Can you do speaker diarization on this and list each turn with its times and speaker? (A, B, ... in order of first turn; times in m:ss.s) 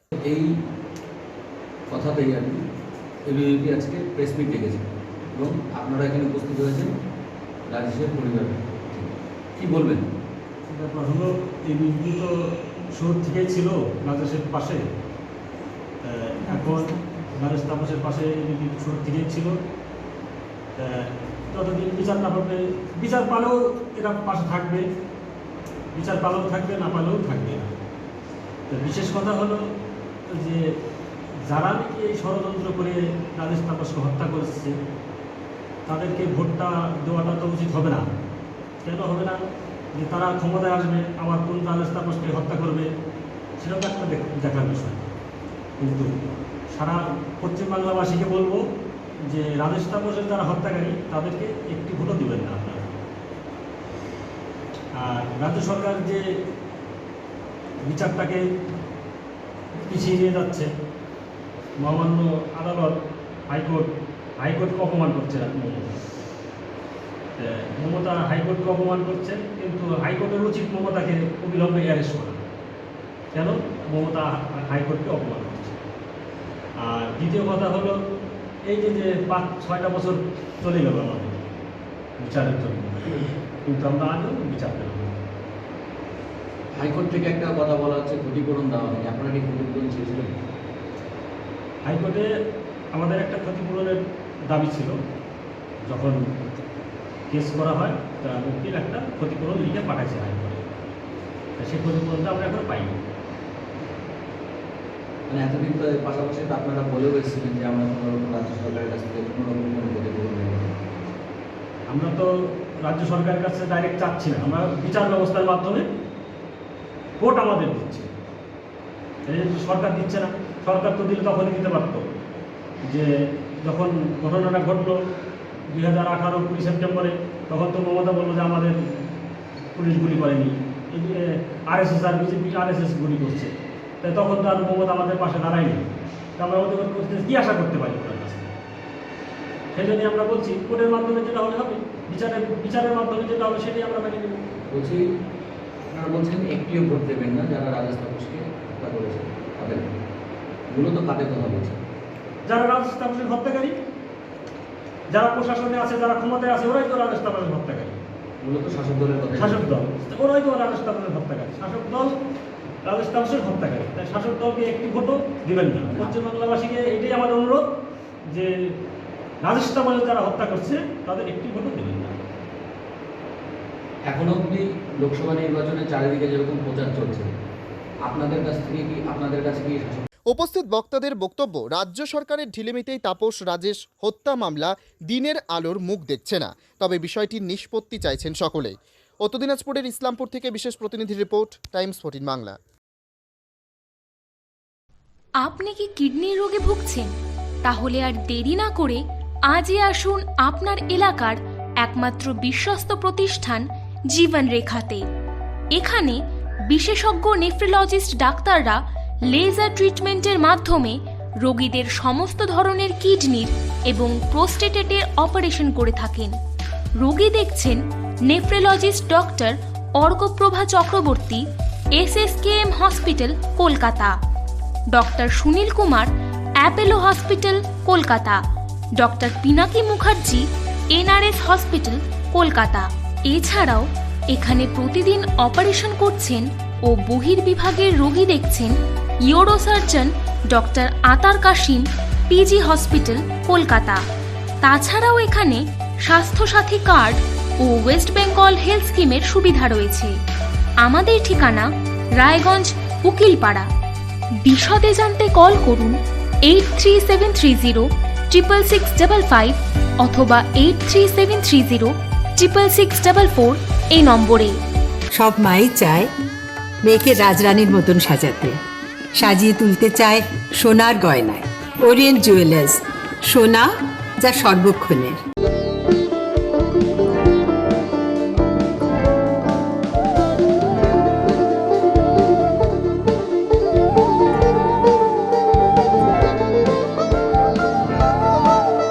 0:00.2-0:00.5 A
0:01.9-0:02.6 A
0:03.3-0:06.9 A
0:07.7-0:10.0 A
0:10.7-0:14.8 B
0:16.0-0:19.5 B
0:20.8-0:24.8 B
0:25.9-0:27.7 B
0:28.7-0:29.7 B
0:30.3-0:30.7 B
0:31.4-0:34.8 B
0:35.8-0:38.0 B
0:38.8-0:42.9 B
0:43.6-0:45.1 B
0:45.8-0:48.6 B
0:49.2-0:52.9 B
0:54.9-0:56.2 B
0:57.8-0:58.4 B
0:59.8-1:00.7 B
1:01.8-1:05.9 B
1:07.4-1:12.4 B
1:13.3-1:15.8 B
1:16.8-1:18.0 B
1:18.6-1:21.5 B
1:22.2-1:25.2 B
1:26.7-1:30.3 A
1:31.8-1:32.3 B
1:32.9-1:35.0 B
1:35.8-1:36.3 B
1:37.3-1:40.7 B
1:41.6-1:43.0 B
1:45.3-1:50.8 A
1:51.9-1:55.9 B
1:57.2-1:58.1 B
1:59.2-2:02.1 B
2:02.8-2:05.0 B
2:05.7-2:09.1 B
2:09.7-2:15.8 B
2:16.4-2:18.5 B
2:19.7-2:24.4 B
2:24.7-2:25.0 A
2:25.8-2:29.9 A
2:30.7-2:31.8 A
2:32.4-2:33.8 B
2:35.1-2:38.0 B
2:38.4-2:39.7 A
2:39.4-2:42.2 B
2:42.8-2:47.6 B
2:49.4-2:52.1 B
2:54.1-2:57.3 A
2:58.0-3:00.0 A
3:00.3-3:12.5 C
3:15.4-3:17.1 D
3:17.6-3:25.0 D
3:25.7-3:36.3 D
3:37.0-3:41.4 D
3:42.0-3:44.1 D
3:44.9-3:48.4 D
3:49.0-3:58.7 D
3:59.3-4:04.0 D
4:04.6-4:10.1 D
4:10.8-4:13.7 D
4:14.4-4:24.6 D
4:25.1-4:26.1 E
4:26.8-4:28.6 E
4:29.1-4:35.2 E